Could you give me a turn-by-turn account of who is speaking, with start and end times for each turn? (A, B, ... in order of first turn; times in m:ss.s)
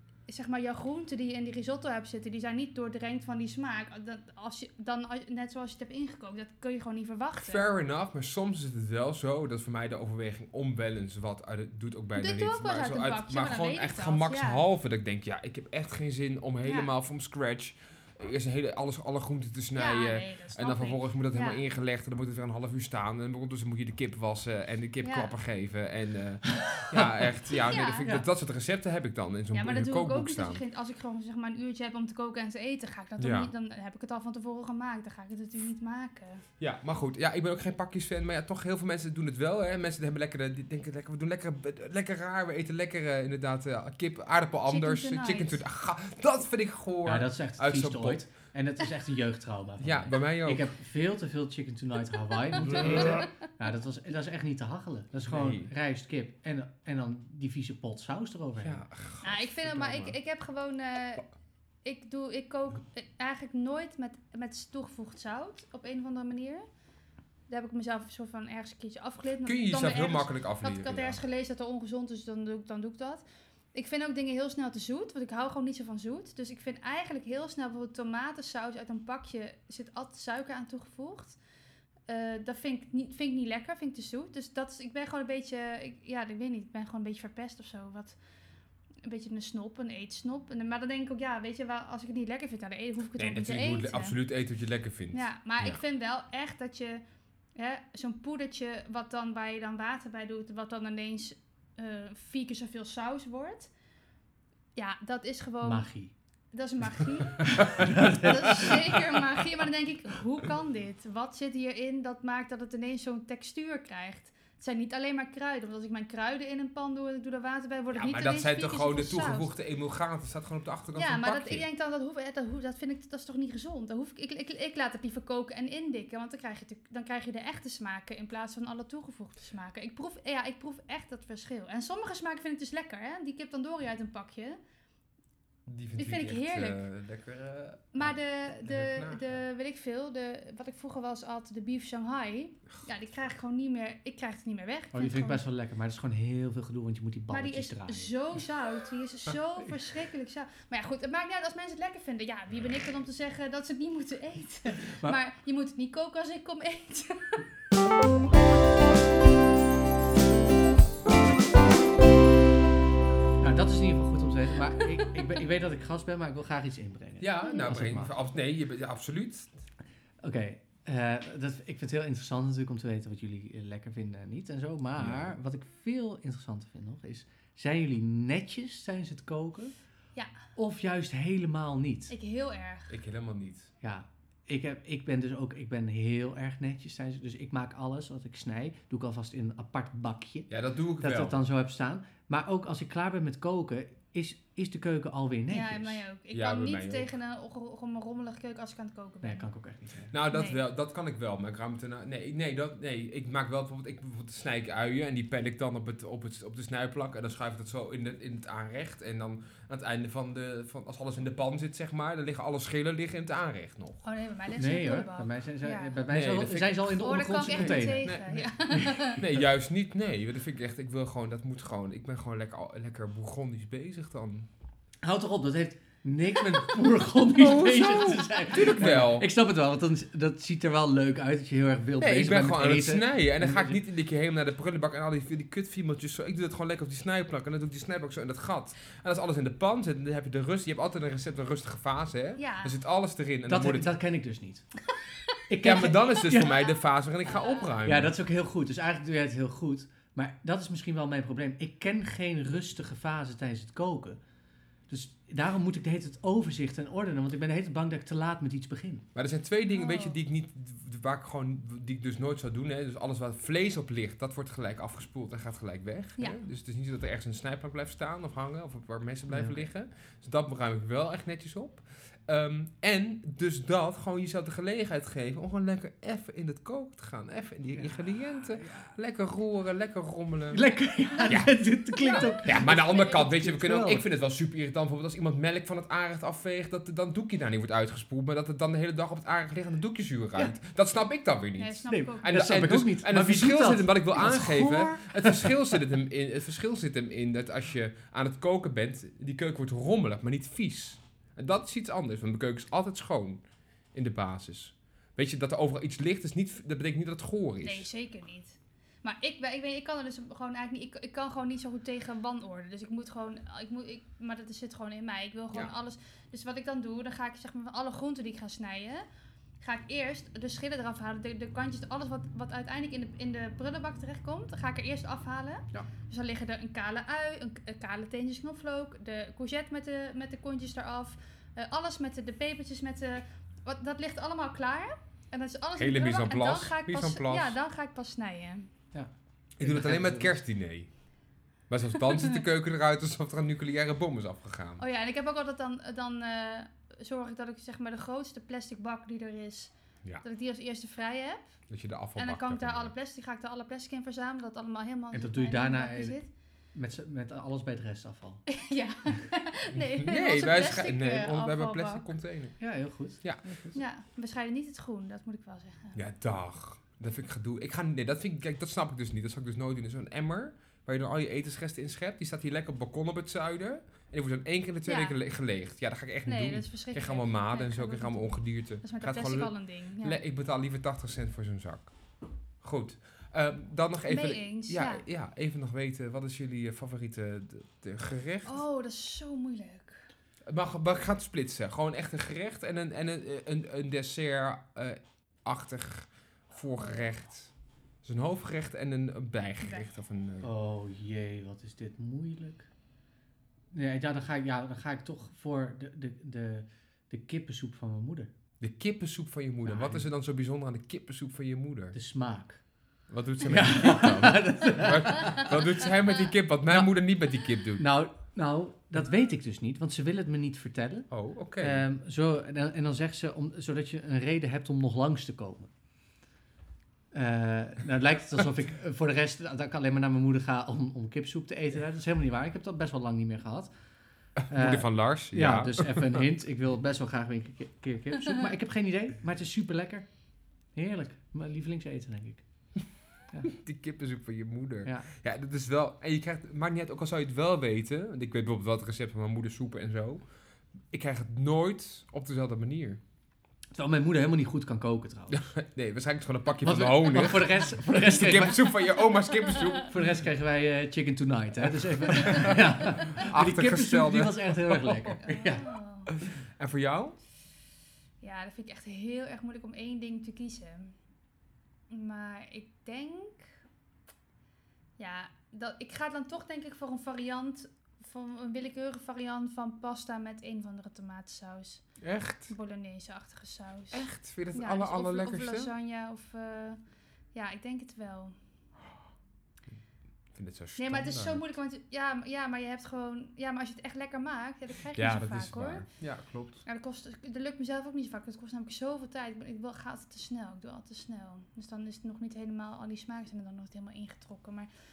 0:00.3-0:07.6 A
0:07.4-0:30.6 B
0:12.2-0:14.6 A
0:16.6-0:16.9 A
0:19.8-0:21.6 A
0:25.0-0:25.3 A
0:27.7-0:28.1 A
0:29.5-0:36.4 A
0:33.2-0:33.5 B
0:36.6-0:48.2 B
0:44.7-0:45.6 A
0:47.0-0:58.8 C
0:49.8-0:50.7 B
0:52.6-0:53.3 B
0:55.3-0:55.7 B
0:58.6-1:00.2 B
0:59.2-1:01.2 A
1:01.8-1:06.7 A
1:07.5-1:21.4 A
1:09.4-1:11.2 B
1:22.1-1:28.2 A
1:29.0-1:34.2 A
1:33.2-1:35.8 B
1:35.1-1:37.0 A
1:37.6-1:43.7 A
1:44.8-1:45.9 A
1:45.6-1:46.1 C
1:46.5-1:59.5 A
1:47.4-1:49.0 C
1:47.6-1:47.9 B
1:57.9-2:01.7 B
2:01.0-2:14.6 A
2:15.7-2:19.4 B
2:16.0-2:16.8 A
2:17.9-2:25.4 A
2:24.9-2:28.1 C
2:27.3-2:37.4 A
2:34.8-2:35.2 C
2:43.4-2:48.1 C
2:47.2-2:49.6 B
2:50.2-2:59.8 C
2:55.0-2:55.3 B
3:00.6-3:02.1 C
3:02.1-3:02.9 A
3:02.9-3:03.7 B
3:03.8-3:10.5 C
3:10.5-3:11.4 B
3:11.0-3:16.0 C
3:15.5-3:19.5 A
3:16.3-3:17.1 B
3:19.2-3:20.1 C
3:20.1-3:34.0 B
3:20.3-3:20.6 A
3:34.0-3:36.0 A
3:34.6-3:38.2 C
3:36.1-3:44.5 B
3:37.0-3:39.2 A
3:38.7-3:39.0 C
3:45.0-3:53.8 C
3:47.4-3:49.3 B
3:52.0-4:03.9 B
4:02.4-4:02.8 A
4:03.5-4:04.6 C
4:05.5-4:06.6 C
4:05.6-4:08.1 B
4:07.8-4:14.2 C
4:14.9-4:19.1 C
4:19.2-4:40.6 B
4:19.7-4:20.2 A
4:29.3-4:29.7 C
4:37.7-4:38.9 C
4:40.5-4:44.0 C
4:41.3-4:41.6 B
4:42.0-4:43.0 A
4:42.1-5:03.4 B
4:51.6-4:52.5 A
4:51.9-4:55.8 C
5:03.9-5:07.9 B
5:07.6-5:19.0 A
5:19.6-5:38.7 A
5:35.8-5:37.6 B
5:38.9-5:40.4 C
5:39.6-5:40.9 B
5:41.7-5:44.8 B
5:44.8-5:51.5 A
5:51.7-5:52.9 B
5:52.2-5:56.3 A
5:55.1-5:56.2 C
5:56.7-5:58.4 C
5:58.5-6:02.1 A
5:59.8-6:02.6 B
6:02.6-6:03.8 C
6:03.7-6:06.0 A
6:06.0-6:21.9 B
6:14.9-6:15.2 A
6:16.3-6:20.2 A
6:22.6-6:28.6 B
6:24.1-6:25.0 A
6:28.4-6:30.1 A
6:30.5-6:37.5 B
6:38.0-6:40.5 B
6:40.4-6:42.7 C
6:43.7-6:48.3 C
6:48.6-6:52.0 B
6:49.7-6:50.1 C
6:51.9-6:52.6 C
6:53.1-6:57.9 B
6:53.4-6:55.6 C
6:57.8-7:05.7 C
7:01.1-7:01.8 B
7:07.1-7:13.7 C
7:14.5-7:16.2 B
7:14.5-7:20.1 C
7:20.7-7:22.4 C
7:23.5-7:30.2 B
7:30.9-7:33.0 B
7:33.7-7:35.5 C
7:35.3-7:40.0 B
7:36.6-7:38.7 C
7:39.9-7:45.7 C
7:42.1-7:45.2 B
7:45.2-7:46.1 A
7:46.1-7:47.2 B
7:48.2-7:50.9 A
7:51.9-7:53.5 A
7:55.0-8:02.0 A
8:02.0-8:02.5 B
8:02.5-8:06.8 A
8:03.9-8:05.7 B
8:07.3-8:08.4 A
8:10.3-8:11.6 B
8:10.8-8:15.9 A
8:15.0-8:16.6 B
8:16.6-8:24.7 A